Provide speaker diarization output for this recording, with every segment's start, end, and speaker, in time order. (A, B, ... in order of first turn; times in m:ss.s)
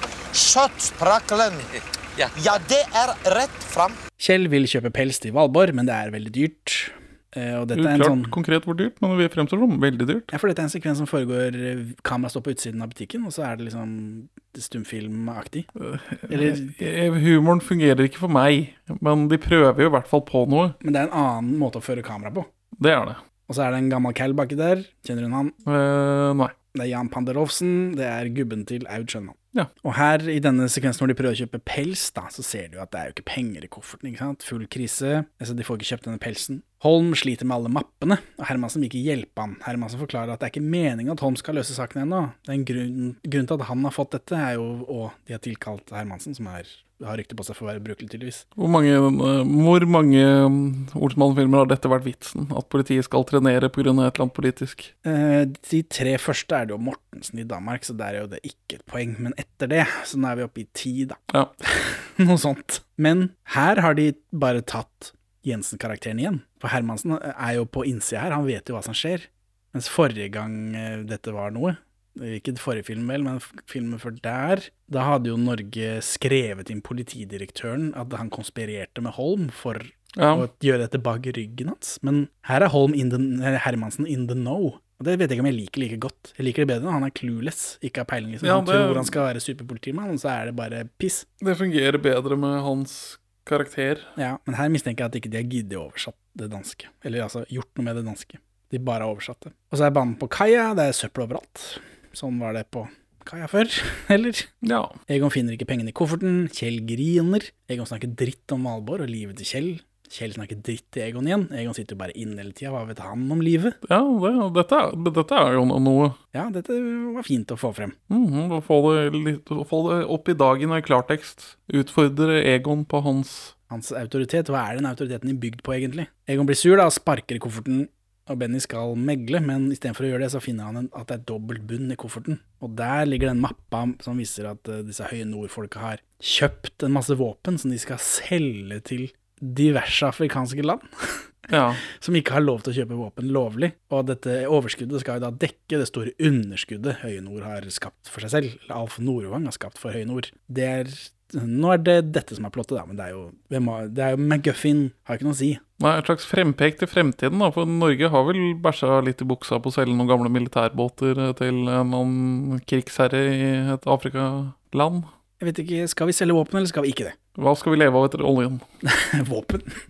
0:00.3-0:04.0 A
0:04.2-0:08.3 B
0:07.7-0:10.3 C
0:10.3-0:15.7 B
0:15.8-0:20.8 C
0:16.3-0:16.7 B
0:20.8-0:22.5 B
0:22.8-0:23.2 C
0:23.5-0:25.5 B
0:25.6-0:26.5 C
0:26.7-0:48.4 B
0:48.6-0:54.9 C
0:55.0-1:31.2 B
1:20.2-1:20.5 C
1:28.4-1:29.1 C
1:31.4-1:34.1 C
1:34.2-1:44.5 B
1:44.6-1:44.9 C
1:45.1-1:53.8 B
1:53.8-1:56.2 C
1:56.3-1:58.0 B
1:58.1-2:03.5 C
2:03.7-2:21.2 B
2:21.5-2:21.8 C
2:21.9-2:35.6 B
2:35.8-2:45.1 C
2:45.4-2:47.2 B
2:47.4-2:48.6 C
2:48.8-2:49.7 B